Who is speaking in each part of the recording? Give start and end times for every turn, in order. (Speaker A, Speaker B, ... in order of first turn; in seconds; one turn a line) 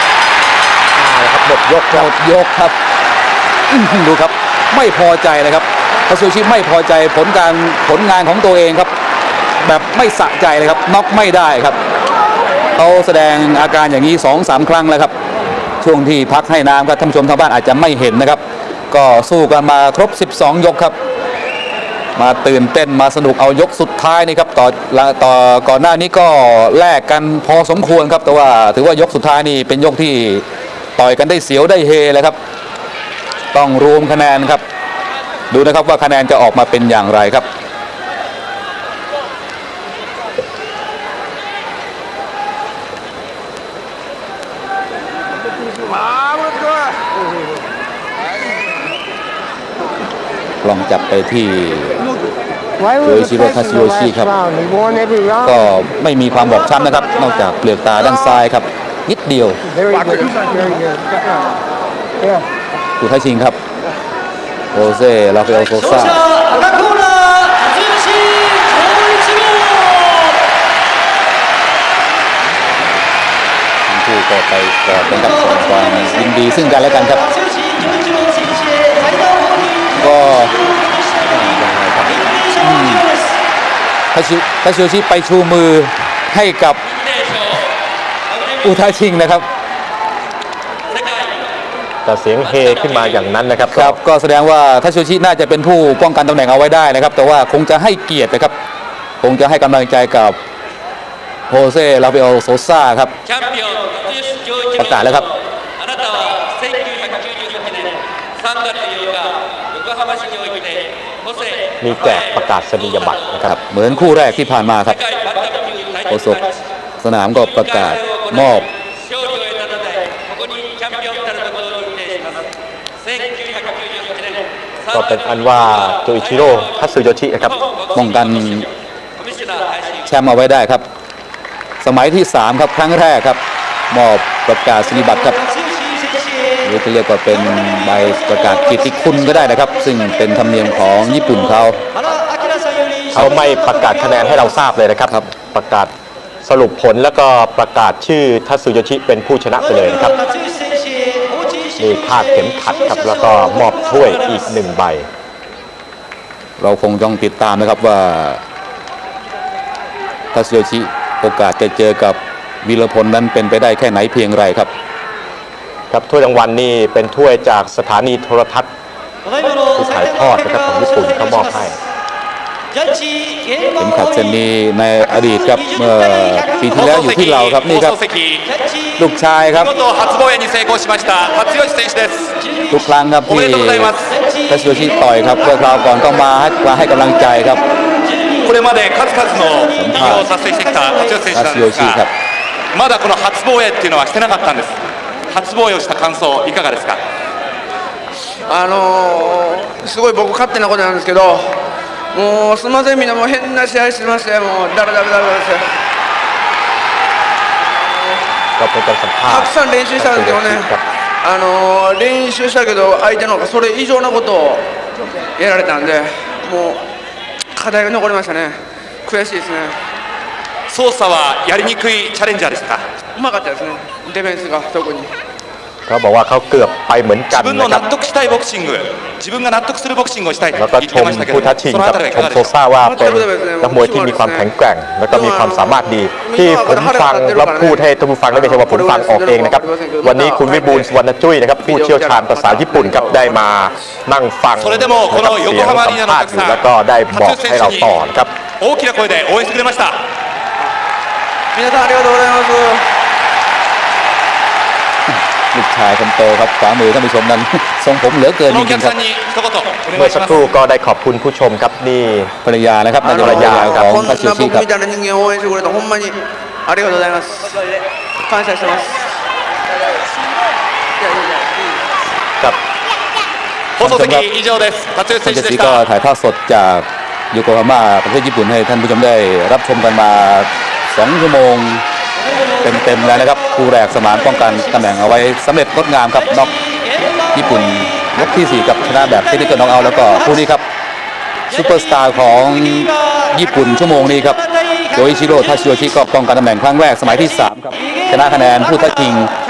Speaker A: 0.9-2.1
Speaker B: 1.9-2.8
Speaker B: 3.7-8.9
Speaker B: 9.6-11.8
Speaker B: 12.8-15.1
Speaker B: 15.8-20.9
Speaker B: 22.1-30.4
Speaker B: 31.0-32.4
Speaker B: 33.5-34.6
Speaker B: 35.5-37.5
Speaker B: 50.6-52.0
Speaker B: 53.0-54.5
Speaker B: 55.4-59.6
Speaker B: 63.0-63.6
Speaker B: 64.7-66.3
Speaker B: 73.9-77.3
Speaker B: 80.0-80.5
Speaker A: 81.3-82.3
Speaker B: 82.6-83.1
Speaker B: 84.1-86.8
Speaker B: 88.6-89.5
Speaker A: 92.0-94.0
Speaker B: 93.7-98.5
Speaker B: 99.2-100.4
Speaker B: 101.5-103.1
Speaker B: 104.7-105.3
Speaker A: 111.8-113.6
Speaker B: 113.4-115.0
Speaker B: 116.0-116.5
Speaker B: 117.0-118.7
Speaker C: 121.1-121.8
Speaker A: 124.9-127.6
Speaker B: 127.9-128.7
Speaker B: 130.1-130.8
Speaker B: 131.8-135.4
Speaker B: 136.6-141.8
Speaker A: 143.1-145.9
Speaker A: 146.4-150.2
Speaker A: 151.8-155.1
Speaker B: 156.6-158.4
Speaker B: 160.3-164.7
Speaker A: 165.9-168.7
Speaker A: 169.7-171.8
Speaker B: 173.8-178.0
Speaker C: 176.7-178.5
Speaker B: 178.9-179.7
Speaker C: 179.7-182.4
Speaker B: 182.7-187.6
Speaker C: 183.3-184.1
Speaker C: 188.4-192.0
Speaker B: 189.7-190.2
Speaker B: 191.3-192.1
Speaker C: 192.7-194.7
Speaker C: 195.3-197.0
Speaker D: 198.5-205.7
Speaker D: 207.6-208.2
Speaker A: 208.6-210.8
Speaker D: 209.3-210.7
Speaker D: 211.2-214.7
Speaker D: 215.3-216.8
Speaker D: 217.5-219.8
Speaker C: 220.7-222.8
Speaker D: 223.1-225.1
Speaker A: 225.8-227.8
Speaker C: 227.3-232.4
Speaker A: 230.6-248.3
Speaker D: 232.8-234.5
Speaker D: 235.1-240.9
Speaker D: 241.6-243.7
Speaker C: 244.6-248.0
Speaker C: 248.6-250.0
Speaker D: 251.5-252.9
Speaker B: 255.1-258.9
Speaker C: 258.5-260.5
Speaker A: 259.9-262.3
Speaker B: 262.4-264.6
Speaker D: 263.0-267.8
Speaker A: 263.1-263.8
Speaker D: 268.3-269.0
Speaker D: 271.0-271.9
Speaker C: 273.8-275.8
Speaker B: 273.8-274.2
Speaker B: 275.2-281.8
Speaker B: 282.6-286.5
Speaker B: 287.3-290.6
Speaker B: 291.5-294.4
Speaker B: 294.9-299.3